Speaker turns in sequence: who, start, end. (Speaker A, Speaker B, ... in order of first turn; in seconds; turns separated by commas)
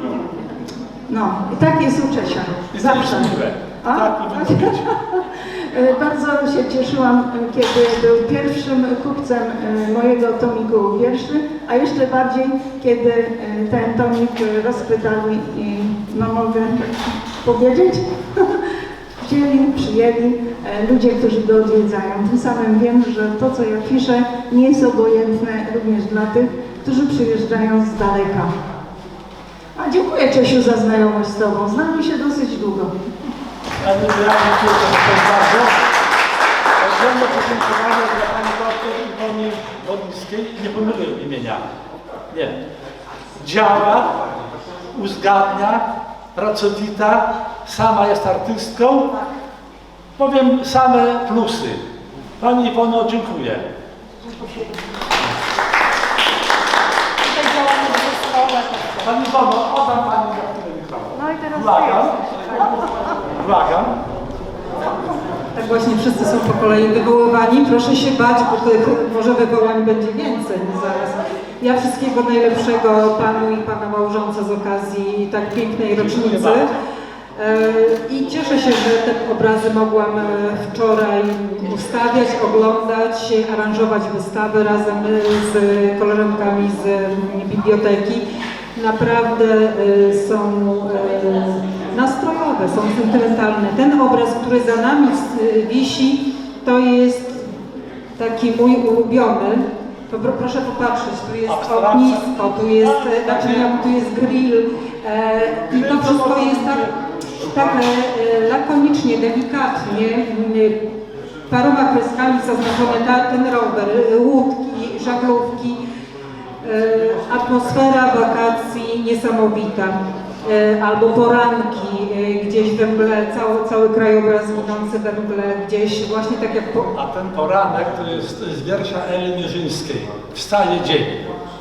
Speaker A: 1.1-18.6, Speaker B: 2.7-4.8, Speaker A: 19.2-28.5, Speaker A: 29.8-32.9, Speaker B: 33.8-35.8, Speaker B: 36.8-41.6, Speaker B: 42.3-42.6, Speaker B: 43.4-44.1, Speaker B: 44.9-45.8, Speaker B: 46.3-49.1, Speaker B: 50.2-51.8, Speaker B: 52.4-53.6, Speaker A: 57.7-58.7, Speaker B: 58.9-62.3, Speaker B: 63.4-63.9, Speaker C: 65.5-76.7, Speaker B: 75.9-76.6, Speaker C: 77.3-88.2, Speaker C: 88.8-97.5, Speaker C: 98.2-110.8, Speaker B: 101.5-103.8, Speaker B: 105.6-106.9, Speaker C: 111.5-115.8, Speaker C: 116.6-126.9, Speaker B: 126.9-131.2